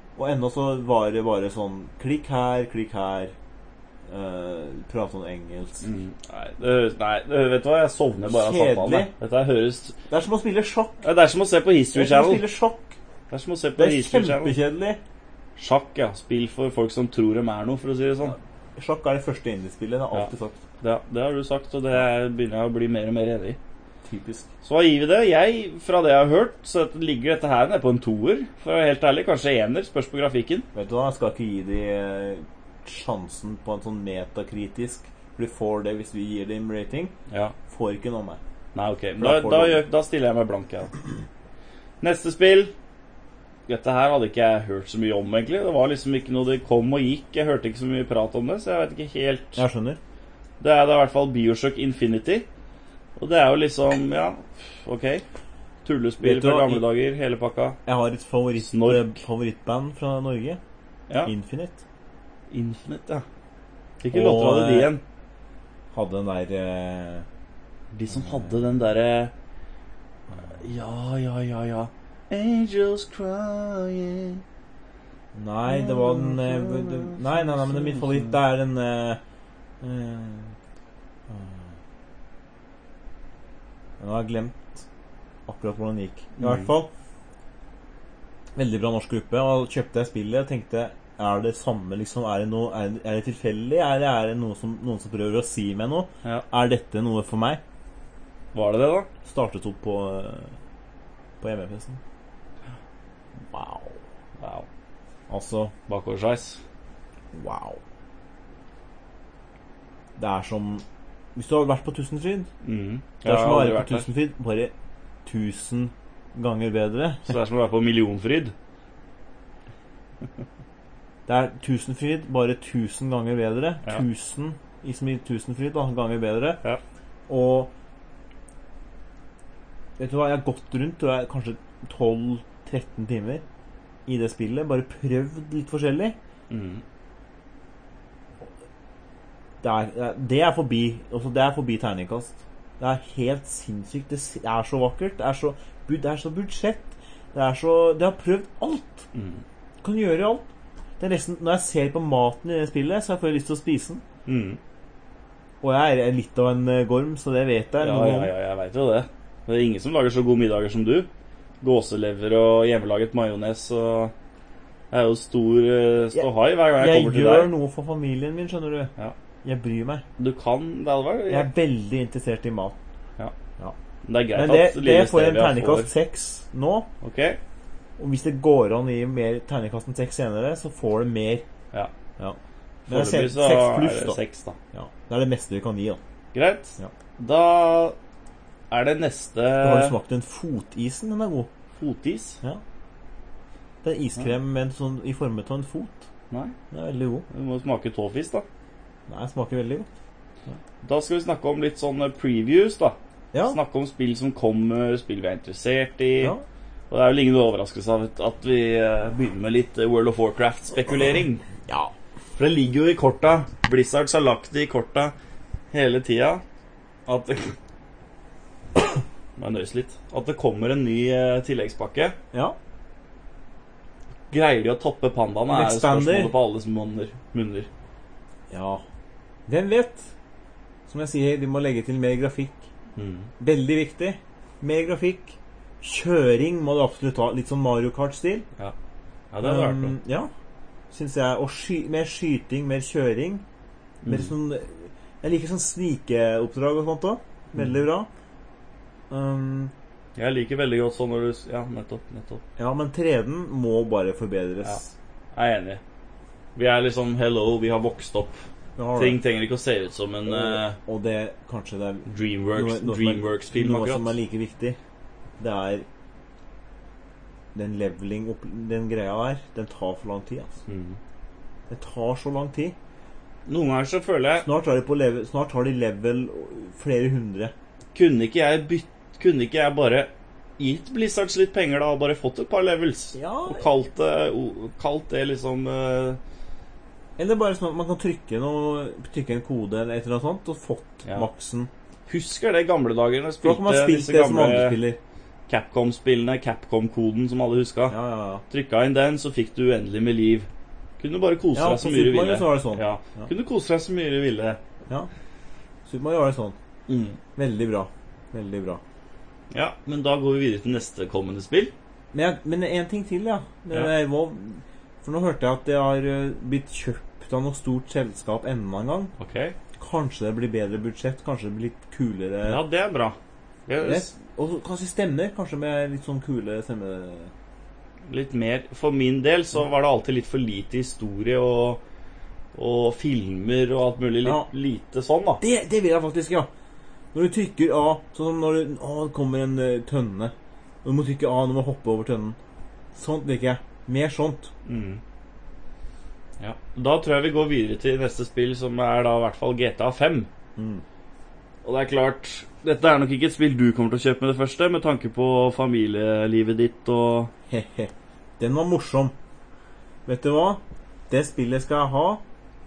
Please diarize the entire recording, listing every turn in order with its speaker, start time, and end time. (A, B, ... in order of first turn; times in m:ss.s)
0:00.2-0:03.3 A
0:04.1-0:05.8 A
0:05.8-0:10.0 B
0:08.2-0:09.1 A
0:10.1-0:11.0 A
0:11.0-0:12.4 B
0:11.9-0:13.0 A
0:13.3-0:14.6 B
0:13.8-0:15.0 A
0:15.6-0:18.4 B
0:18.8-0:20.6 A
0:20.8-0:23.6 B
0:24.0-0:24.5 A
0:24.6-0:30.6 B
0:30.7-0:37.1 A
0:37.3-0:37.5 B
0:37.7-0:38.4 A
0:38.7-0:40.9 B
0:39.2-0:39.8 A
0:42.0-0:42.7 B
0:43.7-0:49.6 B
0:49.6-0:50.0 A
0:50.6-0:52.4 B
0:53.2-0:55.2 B
0:55.8-0:57.8 B
0:56.2-0:56.8 A
0:57.8-1:00.6 A
0:58.6-0:59.2 B
1:01.2-1:01.8 A
1:02.5-1:03.2 B
1:04.0-1:05.0 B
1:04.1-1:04.9 A
1:05.9-1:07.2 A
1:07.9-1:09.3 B
1:10.4-1:14.4 B
1:15.3-1:19.2 A
1:15.6-1:18.4 B
1:19.8-1:20.5 A
1:21.3-1:21.7 A
1:24.0-1:24.8 A
1:25.5-1:26.9 A
1:26.4-1:26.7 B
1:28.5-1:37.6 A
1:38.5-1:39.1 B
1:39.2-1:40.5 A
1:41.4-1:42.0 A
1:43.5-1:44.0 A
1:44.4-1:44.6 B
1:45.3-1:45.7 A
1:45.9-1:46.6 B
1:47.3-1:47.8 A
1:50.2-1:50.8 A
1:51.4-1:52.5 A
1:52.6-1:54.0 B
1:53.2-1:54.7 A
1:55.2-1:57.3 A
1:57.2-1:58.5 B
2:01.3-2:06.6 A
2:07.3-2:07.7 A
2:10.0-2:13.4 A
2:14.1-2:16.2 A
2:16.5-2:16.8 B
2:19.6-2:29.1 A
2:29.1-2:29.4 B
2:29.8-2:30.5 A
2:31.0-2:34.0 A
2:34.2-2:34.6 B
2:35.6-2:38.3 A
2:37.8-2:41.1 B
2:41.6-2:44.1 B
2:44.9-2:47.5 B
2:46.1-2:48.9 A
2:49.4-2:50.0 A
2:50.2-2:51.5 B
2:51.3-2:52.8 A
2:54.0-2:55.9 B
2:54.3-2:56.9 A
2:57.0-2:57.4 B
2:58.0-3:01.4 A
3:02.2-3:04.2 A
3:02.9-3:04.6 B
3:04.7-3:06.0 A
3:06.3-3:08.0 B
3:08.7-3:09.9 B
3:09.6-3:11.5 A
3:11.8-3:12.4 B
3:13.8-3:16.0 A
3:16.7-3:17.2 A
3:17.3-3:18.4 B
3:19.1-3:19.9 A
3:20.8-3:26.3 B
3:26.9-3:31.4 B
3:31.7-3:31.9 A
3:32.4-3:35.1 B
3:35.7-3:36.4 B
3:37.1-3:37.5 B
3:39.4-3:42.2 B
3:44.3-3:47.7 B
3:45.5-3:46.3 A
3:48.5-3:48.8 A
3:49.5-3:50.1 A
3:50.9-3:52.7 A
3:53.0-3:53.3 B
3:53.4-3:58.4 A
3:59.3-4:00.0 B
3:59.4-4:00.3 A
4:00.9-4:03.4 A
4:04.0-4:04.3 B
4:04.0-4:08.1 A
4:09.1-4:09.7 A
4:10.2-4:12.4 B
4:12.6-4:14.9 A
4:15.3-4:15.8 B
4:16.6-4:18.4 B
4:18.8-4:19.2 A
4:18.9-4:20.8 B
4:20.3-4:24.8 A
4:22.1-4:24.2 B
4:25.4-4:25.8 A
4:27.5-4:30.6 A
4:30.7-4:31.0 B
4:31.7-4:32.7 A
4:33.5-4:34.5 B
4:34.4-4:37.5 A
4:37.9-4:46.2 B
4:43.1-4:43.7 A
4:47.2-4:51.7 A
4:52.1-4:54.8 B
4:53.4-4:55.0 A
4:55.5-4:58.0 B
4:57.9-4:58.4 A
4:58.5-5:00.5 B
5:01.0-5:04.6 B
5:01.5-5:03.3 A
5:05.8-5:06.6 A
5:06.9-5:07.2 B
5:07.4-5:08.8 A
5:09.5-5:11.7 B
5:12.1-5:19.1 A
5:19.2-5:19.6 B
5:19.8-5:22.6 A
5:22.4-5:24.1 B
5:23.8-5:27.3 A
5:28.1-5:31.8 B
5:32.5-5:35.4 B
5:35.4-5:36.5 A
5:37.1-5:40.3 A
5:40.8-5:42.4 A
5:42.9-5:44.5 A
5:44.6-5:45.0 B
5:46.4-5:50.3 B
5:50.6-5:50.8 A
5:51.6-5:57.3 B
5:57.5-5:59.1 A
6:00.0-6:02.2 A